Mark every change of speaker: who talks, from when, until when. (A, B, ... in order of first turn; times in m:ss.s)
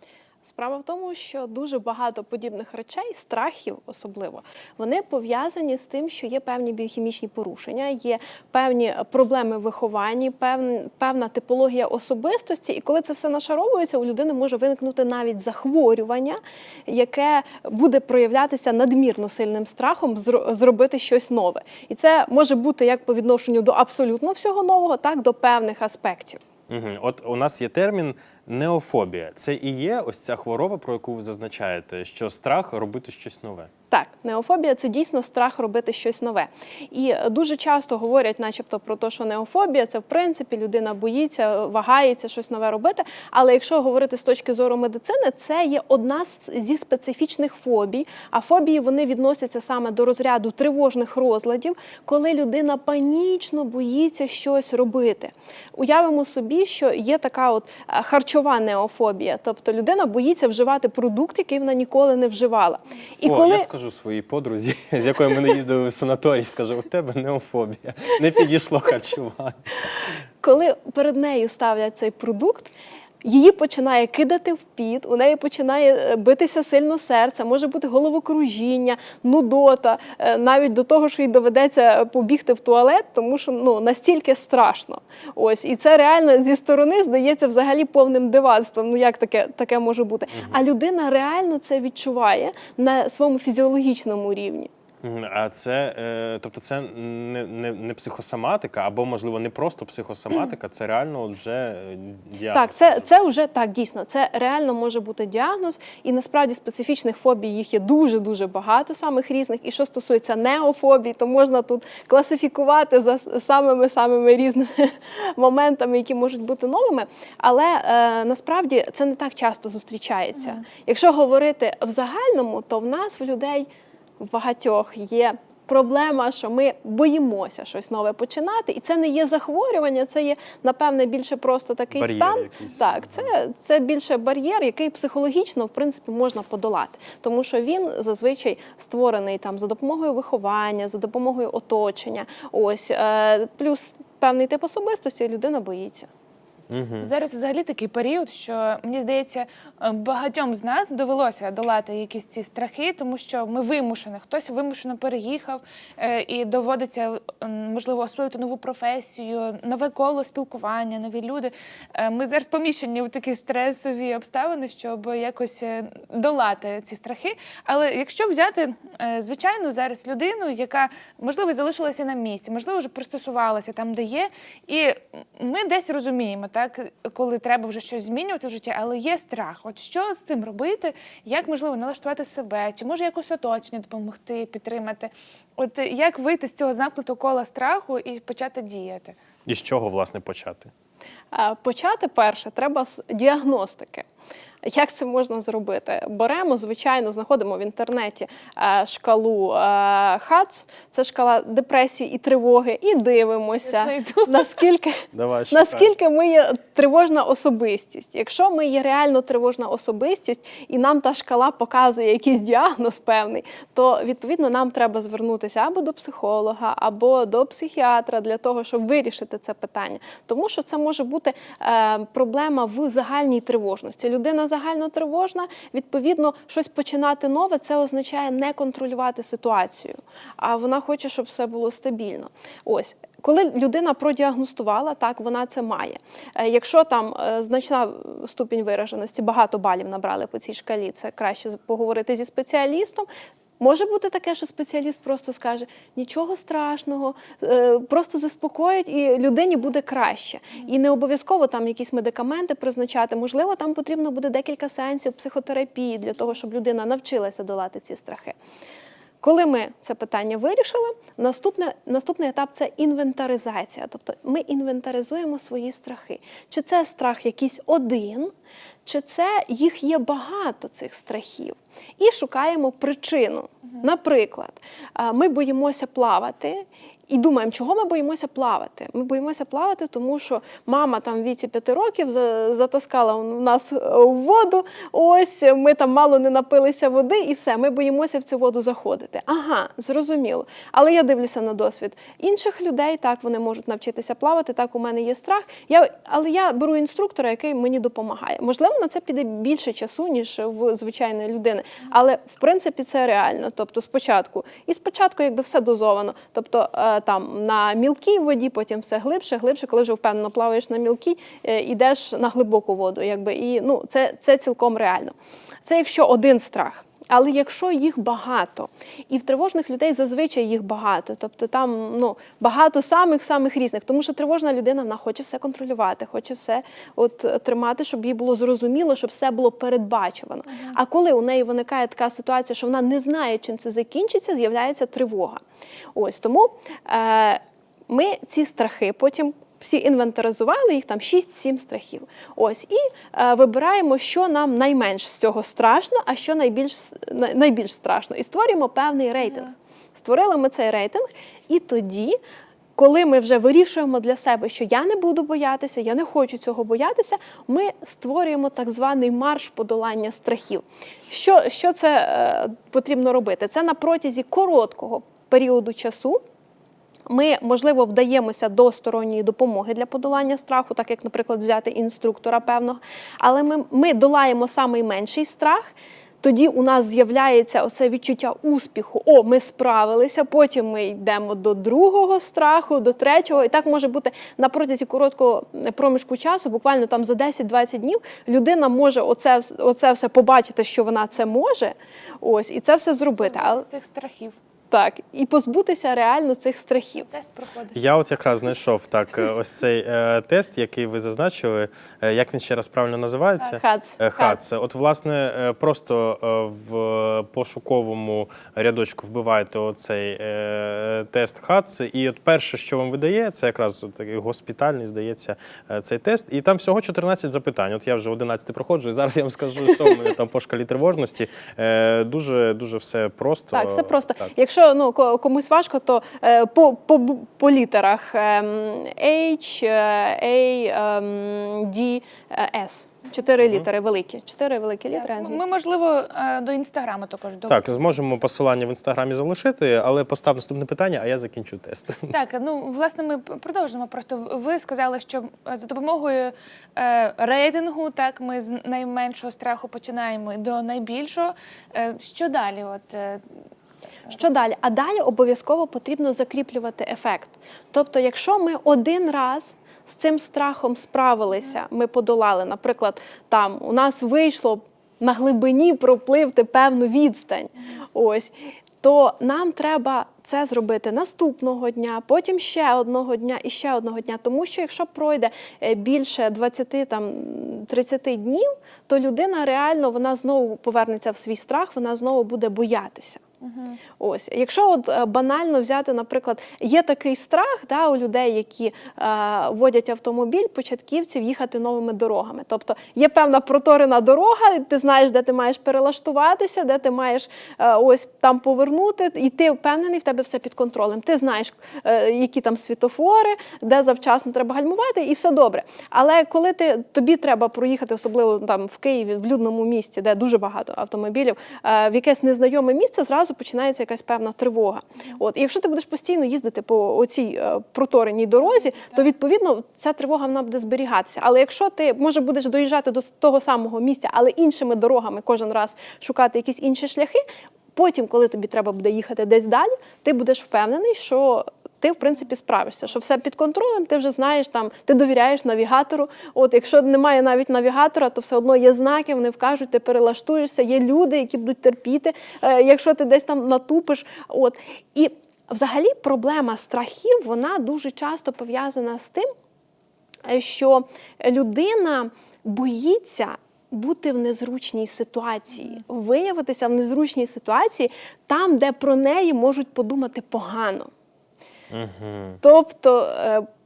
0:00.4-0:26.4 A
0:26.7-0:33.7 B
0:33.9-1:03.7 A
1:03.2-1:09.6 B
1:10.4-1:12.7 A
1:13.2-1:34.7 A
1:30.3-1:30.6 B
1:35.0-1:43.1 B
1:42.5-2:03.7 A
2:04.2-2:26.1 A
2:11.9-2:13.3 B
2:26.7-2:27.1 B
2:27.0-3:09.2 C
3:09.4-3:10.7 B
3:11.3-3:14.0 A
3:14.6-4:03.1 A
3:23.6-3:24.6 C
3:25.1-3:25.9 B
4:03.6-4:18.4 A
4:19.2-4:28.3 A
4:28.8-5:15.1 A
5:15.7-5:35.4 A
5:35.9-5:52.2 A
5:52.8-6:06.2 A
6:07.1-6:33.7 A
6:33.2-6:34.4 C
6:34.7-6:37.1 A
6:37.1-6:37.8 C
6:37.7-7:04.3 B
6:43.5-6:44.4 A
7:03.5-7:15.4 A
7:13.4-7:13.7 B
7:14.9-7:17.7 C
7:17.5-7:22.1 B
7:22.1-7:33.2 C
7:34.1-8:03.2 A
8:03.4-8:03.8 C
8:04.0-8:47.2 A
8:38.8-8:39.1 C
8:47.8-9:09.3 A
9:10.3-9:20.9 A
9:21.7-9:22.4 B
9:22.4-9:23.5 A